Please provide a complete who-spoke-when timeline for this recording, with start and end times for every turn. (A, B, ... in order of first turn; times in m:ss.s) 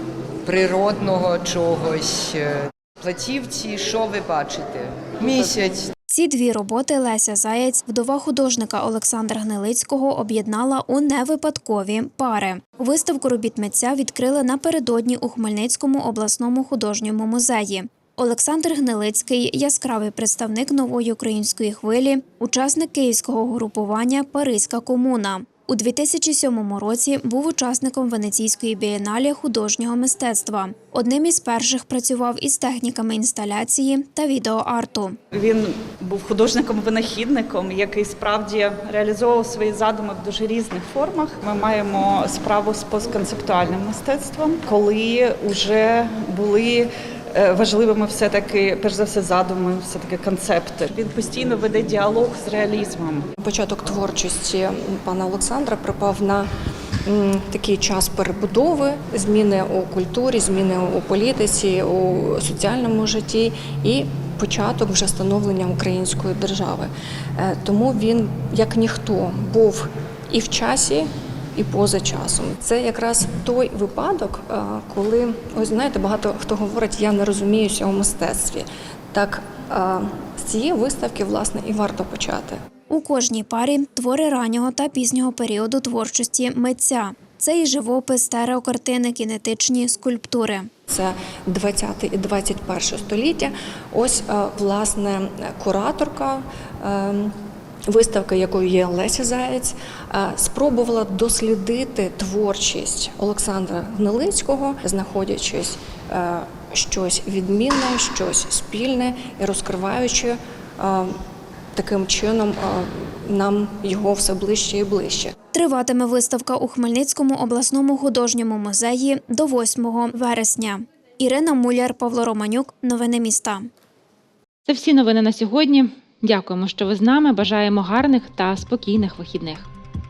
0:00.4-0:05.9 A
0:06.1-0:35.2 B
0:35.3-0:53.2 C
0:53.4-0:56.5 D
0:57.0-1:22.6 D
1:22.9-1:30.7 B
1:30.9-1:37.4 D
1:37.9-1:51.2 D
1:51.8-1:55.3 D
1:55.5-2:03.7 B
2:04.7-2:09.7 E